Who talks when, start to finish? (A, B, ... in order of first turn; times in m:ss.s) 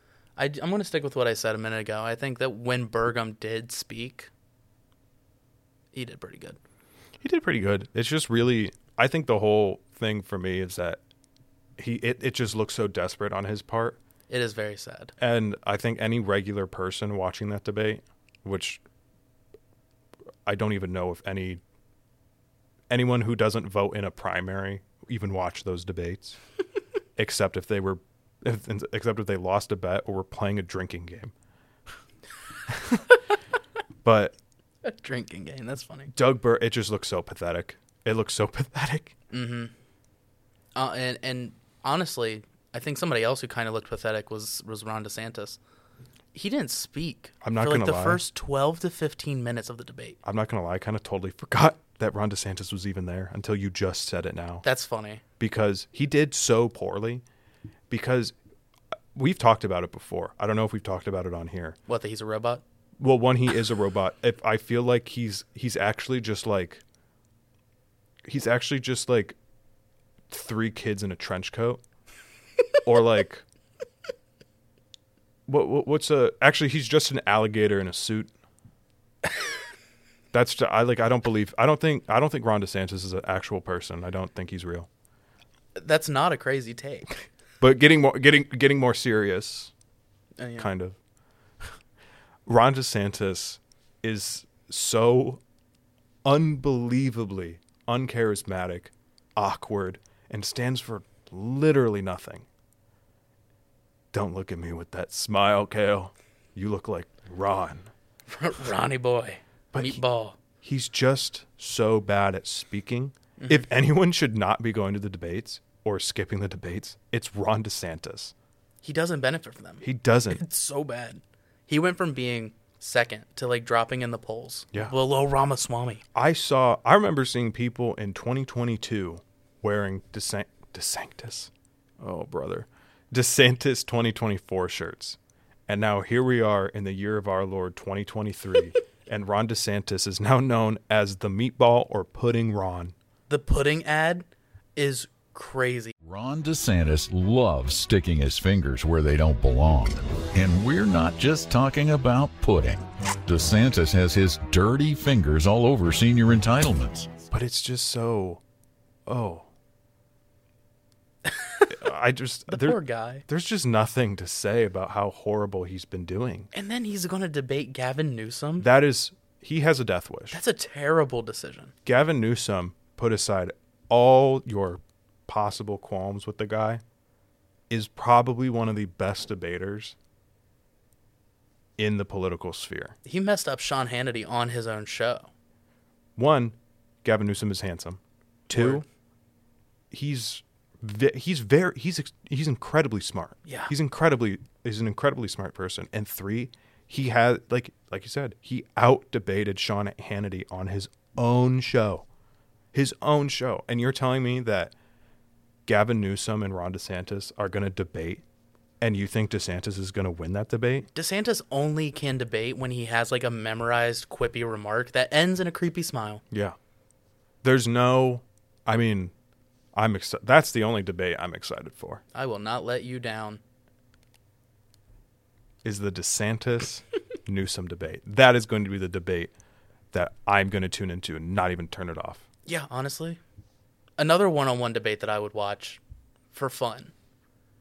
0:00.4-0:04.3 A
0:05.9-0:06.6 A
0:07.2-0:11.0 B
0:11.8-0:14.0 B
0:14.3-0:15.1 A
0:15.2-0:18.8 B
0:20.4-0:21.6 B
0:22.9-0:26.4 B
0:27.2-0:31.3 B
0:32.7-0:33.0 B
0:34.0-0:34.3 B
0:34.8-0:36.1 A
0:36.1-0:39.1 B
0:39.3-0:39.7 A
0:40.7-0:45.6 A
0:46.3-0:50.2 A
0:47.4-0:48.2 B
0:50.2-0:54.6 B
0:54.6-0:55.2 A
0:55.4-0:57.2 B
0:57.9-0:58.3 B
0:59.1-1:01.8 B
1:01.9-1:02.6 A
1:03.0-1:06.8 B
1:08.2-1:09.3 B
1:10.3-1:11.8 B
1:12.8-1:13.4 B
1:15.5-1:18.3 B
1:20.3-1:24.9 B
1:25.8-1:27.3 A
1:27.6-1:29.7 B
1:30.4-1:30.7 A
1:30.6-1:31.0 B
1:32.4-1:35.4 B
1:36.2-1:42.4 B
1:44.1-1:47.9 B
1:48.3-1:50.4 A
1:49.7-1:50.0 B
1:50.6-1:58.3 B
1:53.4-1:53.7 A
1:58.8-2:06.0 A
1:59.8-2:00.4 B
2:06.1-2:22.9 B
2:23.3-2:24.2 A
2:24.8-2:25.9 A
2:26.0-2:37.1 C
2:37.3-2:38.4 B
2:39.1-2:39.5 B
2:41.2-2:41.8 A
2:41.7-2:46.5 B
2:42.5-2:43.2 A
2:46.5-2:48.7 A
2:48.6-2:50.4 B
2:50.3-2:51.7 A
2:51.8-2:56.8 B
2:57.7-2:59.9 B
3:01.8-3:03.0 B
3:03.0-3:05.3 A
3:06.2-3:08.8 B
3:08.5-3:08.8 A
3:09.9-3:22.0 B
3:13.4-3:13.7 A
3:22.7-3:24.7 B
3:25.6-3:28.2 B
3:28.8-3:30.9 B
3:30.9-3:36.2 A
3:36.3-3:36.6 B
3:37.4-3:39.1 B
3:39.7-3:42.0 B
3:42.1-3:43.4 A
3:45.6-3:49.3 B
3:49.9-3:52.2 B
3:52.4-3:53.2 A
3:54.0-3:55.8 A
3:56.3-3:56.9 A